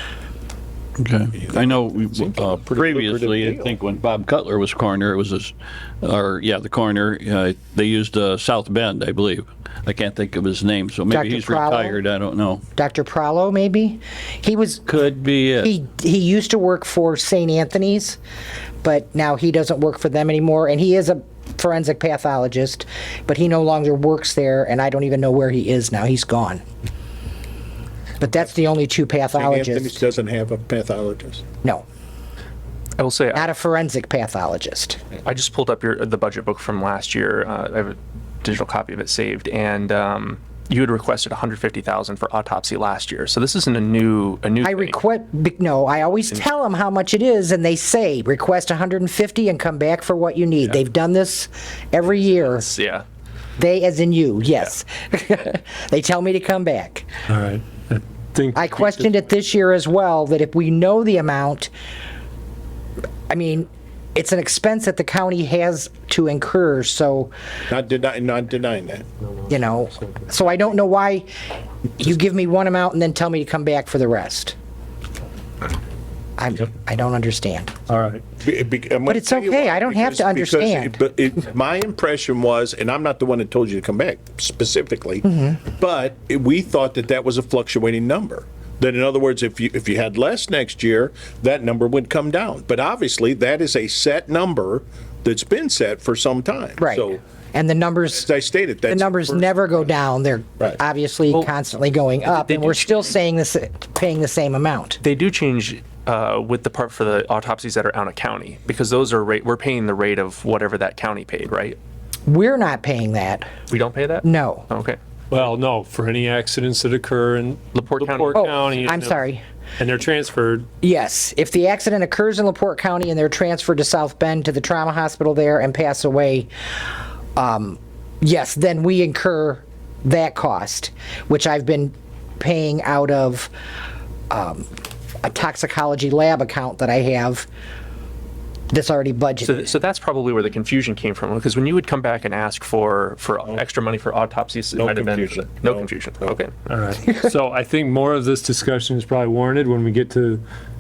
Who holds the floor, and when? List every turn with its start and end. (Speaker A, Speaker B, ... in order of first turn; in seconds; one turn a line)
Speaker A: 1.0-12.6
Speaker B: 1.5-3.8
Speaker C: 11.1-12.0
Speaker C: 12.8-14.9
Speaker A: 14.9-15.7
Speaker C: 15.6-18.2
Speaker C: 18.8-26.6
Speaker C: 28.2-30.0
Speaker B: 29.3-31.4
Speaker D: 33.0-33.5
Speaker C: 33.3-35.0
Speaker D: 35.2-45.0
Speaker C: 44.6-52.7
Speaker D: 52.5-53.0
Speaker C: 53.6-57.1
Speaker E: 57.3-59.1
Speaker C: 58.5-61.7
Speaker C: 63.3-67.3
Speaker B: 67.7-69.1
Speaker C: 69.5-71.3
Speaker C: 72.0-74.5
Speaker C: 76.4-77.7
Speaker E: 77.9-78.2
Speaker B: 78.4-97.2
Speaker C: 79.1-81.0
Speaker C: 85.3-85.6
Speaker C: 96.8-98.3
Speaker B: 98.1-99.5
Speaker C: 98.9-105.0
Speaker D: 102.2-103.1
Speaker D: 105.0-111.8
Speaker C: 112.3-113.5
Speaker D: 113.7-115.0
Speaker C: 114.2-114.7
Speaker E: 115.3-119.2
Speaker D: 117.7-118.4
Speaker C: 118.3-119.4
Speaker E: 119.8-120.7
Speaker C: 120.8-126.5
Speaker C: 127.4-133.5
Speaker C: 134.3-134.7
Speaker C: 135.2-137.5
Speaker C: 138.7-139.7
Speaker D: 139.4-146.5
Speaker B: 144.8-145.9
Speaker E: 146.7-150.4